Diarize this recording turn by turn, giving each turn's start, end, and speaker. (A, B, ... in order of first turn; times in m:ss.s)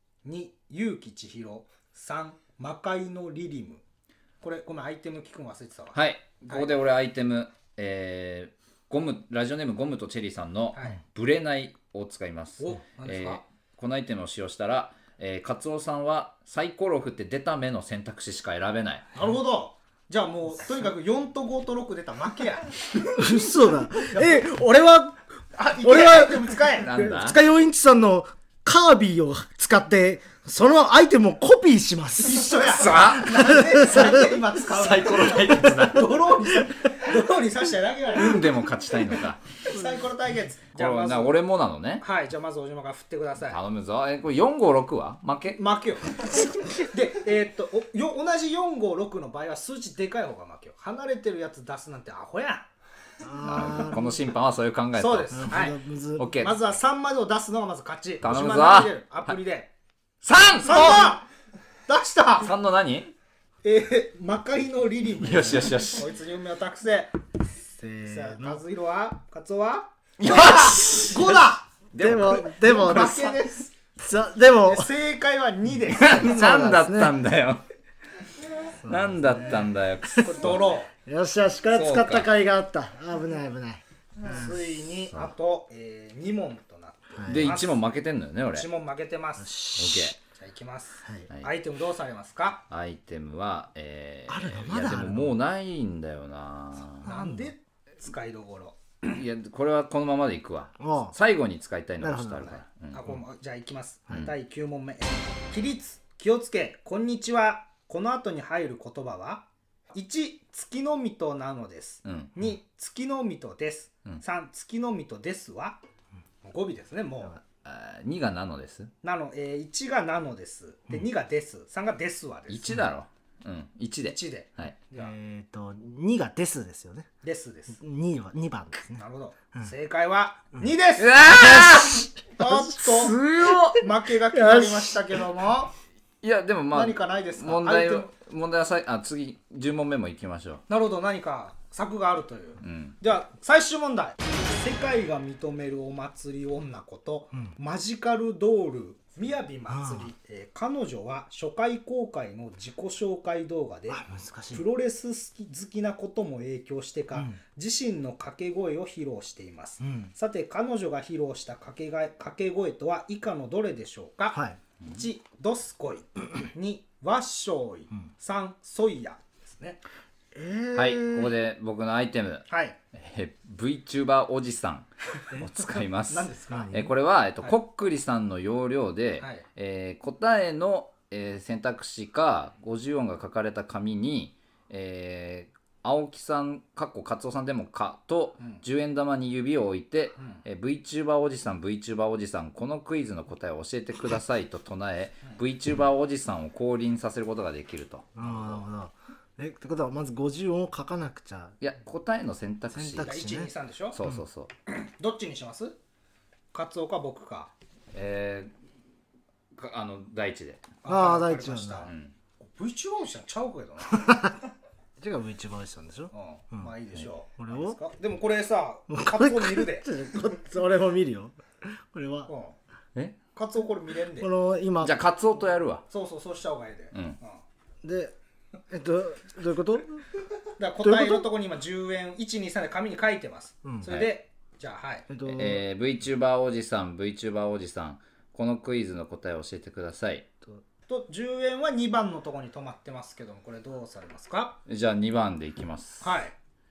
0:00.2-0:03.8 A
0:04.4-0:06.7 A
0:05.9-0:19.1 B
0:10.7-0:11.0 A
0:12.6-0:13.4 A
0:19.1-0:22.7 A
0:23.1-0:25.2 C
0:25.6-0:27.1 A
0:25.8-0:32.7 C
0:26.8-0:27.4 B
0:32.2-0:38.5 A
0:32.7-0:33.3 B
0:33.2-0:34.3 C
0:34.6-0:36.2 B
0:38.1-0:39.4 B
0:39.6-0:41.4 A
0:40.8-0:42.0 B
0:42.0-0:43.6 A
0:43.5-0:45.6 B
0:45.6-0:52.7 A
0:53.2-0:54.2 C
0:53.4-0:54.0 A
0:53.4-0:55.6 B
0:55.0-0:55.8 A
0:55.3-0:56.4 C
0:56.2-0:56.6 B
0:56.4-0:59.7 A
0:58.2-0:59.3 B
1:00.2-1:01.1 B
1:00.6-1:01.3 A
1:01.9-1:02.5 A
1:02.4-1:03.1 B
1:03.6-1:07.1 A
1:05.2-1:06.1 B
1:07.7-1:08.6 C
1:08.0-1:11.7 A
1:10.2-1:11.4 B
1:11.9-1:13.2 B
1:12.0-1:13.4 C
1:12.6-1:13.7 A
1:14.0-1:14.9 C
1:14.6-1:16.6 A
1:15.9-1:17.6 B
1:16.0-1:17.2 C
1:18.8-1:20.5 C
1:18.8-1:20.7 B
1:20.2-1:20.9 A
1:21.0-1:24.5 C
1:21.7-1:22.3 B
1:24.2-1:27.8 A
1:27.1-1:27.6 C
1:27.3-1:28.7 B
1:28.5-1:29.5 A
1:29.4-1:30.1 C
1:29.8-1:30.2 B
1:30.2-1:32.6 A
1:32.7-1:37.0 B
1:34.3-1:35.3 C
1:37.0-1:39.2 A
1:37.0-1:37.5 C
1:39.1-1:43.0 B
1:40.8-1:41.1 C
1:42.0-1:42.6 C
1:42.9-1:55.8 A
1:52.0-1:52.3 B
1:56.4-1:57.4 A
1:57.6-1:58.9 B
1:59.0-2:02.8 A
2:02.5-2:04.8 B
2:04.0-2:05.1 A
2:05.0-2:07.1 C
2:07.2-2:07.8 A
2:07.8-2:09.0 C
2:09.0-2:11.3 A
2:11.0-2:12.1 B
2:11.3-2:12.5 C
2:12.3-2:13.2 A
2:12.7-2:13.8 B
2:13.7-2:15.7 A
2:14.3-2:15.2 C
2:16.2-2:20.6 B
2:16.7-2:18.1 A
2:20.7-2:49.8 A
2:22.6-2:23.0 B
2:29.7-2:30.1 C
2:33.9-2:34.6 C
2:39.8-2:40.1 C
2:44.3-2:44.6 C
2:50.3-2:51.3 C
2:50.7-3:18.6 B
2:52.5-2:52.8 A
2:56.1-2:56.8 A
2:56.5-2:56.9 C
2:59.2-2:59.4 A
3:18.2-3:21.5 C
3:21.6-3:23.2 B
3:22.7-3:23.5 C
3:23.0-3:24.0 A
3:23.9-3:24.5 B
3:24.7-3:25.8 A
3:26.5-3:27.5 A
3:27.9-3:28.5 B
3:29.5-3:30.6 B
3:30.8-3:34.3 A
3:30.8-3:31.8 C
3:31.8-3:32.1 B
3:33.9-3:34.4 C
3:35.0-3:36.7 C
3:36.1-3:39.9 A
3:37.4-3:37.8 C
3:38.9-3:42.3 C
3:42.3-3:42.6 A
3:43.3-3:44.3 A
3:44.2-3:44.9 C
3:44.8-3:45.8 B
3:45.9-3:47.4 A
3:46.9-3:47.2 B
3:47.8-3:48.1 C
3:48.7-3:50.0 C
3:50.6-3:55.1 A
3:50.8-3:51.2 C
3:55.1-3:55.6 C
3:55.3-4:00.3 B
4:00.9-4:04.6 A
4:04.6-4:06.1 B
4:06.0-4:06.3 A